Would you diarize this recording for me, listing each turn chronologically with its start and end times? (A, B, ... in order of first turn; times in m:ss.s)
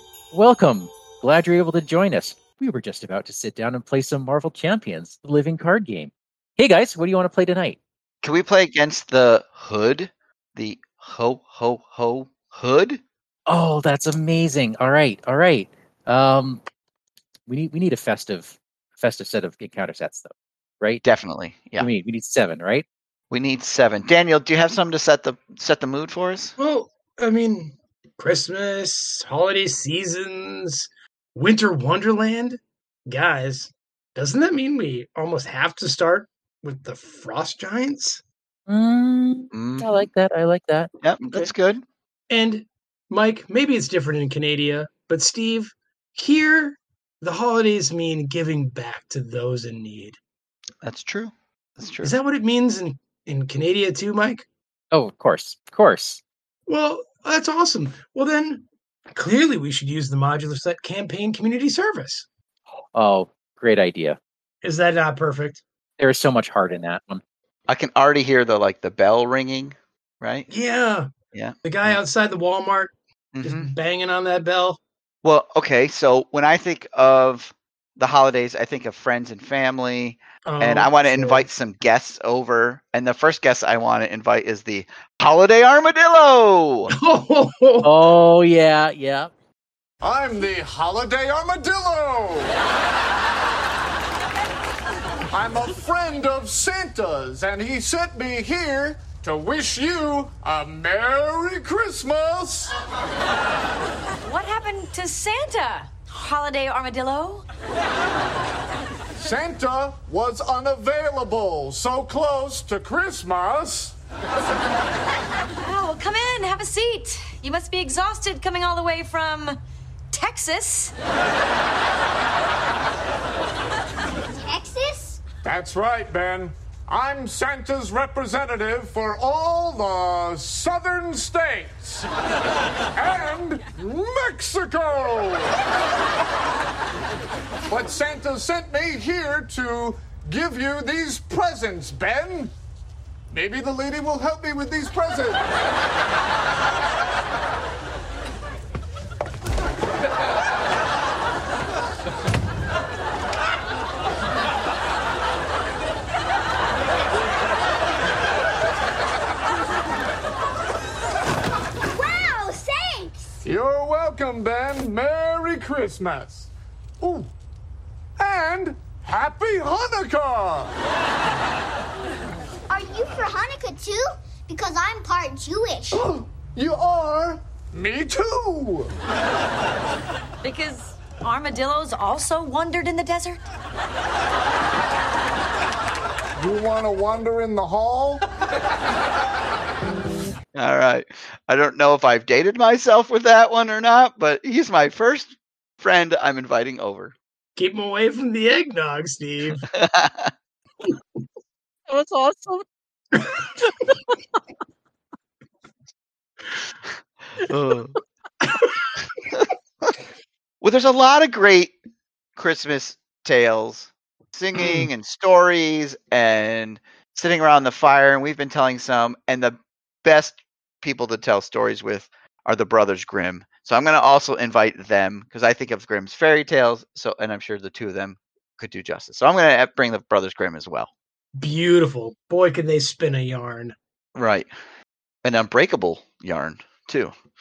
0:00.3-0:07.8 A
0:08.2-0:13.0 B
0:13.5-0:16.6 A
0:17.5-0:21.0 A
0:21.0-0:21.9 B
0:21.8-0:22.8 A
0:23.3-0:26.5 B
0:26.6-0:38.2 C
0:38.7-0:40.9 A
0:39.5-0:40.1 B
0:41.0-0:41.8 B
0:42.3-0:50.2 C
0:50.8-0:52.1 B
0:52.0-0:54.4 C
0:54.9-0:56.2 A
0:56.7-1:02.2 C
1:02.9-1:04.2 A
1:04.6-1:05.6 C
1:06.0-1:07.2 A
1:07.7-1:10.5 B
1:10.5-1:11.1 C
1:11.3-1:12.0 B
1:11.6-1:14.8 C
1:13.3-1:13.7 B
1:15.2-1:26.9 B
1:20.4-1:21.5 C
1:26.9-1:27.9 C
1:27.8-1:29.3 A
1:30.0-1:32.6 D
1:35.3-1:42.7 D
1:44.2-1:47.4 E
1:49.2-1:53.9 D
1:55.6-1:59.6 E
2:00.1-2:00.9 E
2:05.4-2:12.1 D
2:12.9-2:15.6 D
2:17.7-2:22.5 D
2:23.3-2:25.4 D
2:41.9-2:43.1 F
2:43.4-2:46.5 D
2:47.0-2:47.3 D
2:48.2-2:50.7 D
2:52.7-2:55.9 F
2:55.9-2:58.9 D
3:00.4-3:03.4 E
3:06.4-3:08.2 D
3:10.5-3:17.1 B
3:17.6-3:19.6 C
3:19.7-3:20.3 B
3:21.9-3:22.6 A
3:27.4-3:28.0 B
3:29.3-3:29.9 B
3:30.6-3:31.7 B
3:32.4-3:50.9 B
3:51.4-3:53.7 C
3:54.1-3:54.5 B
3:55.2-3:57.1 B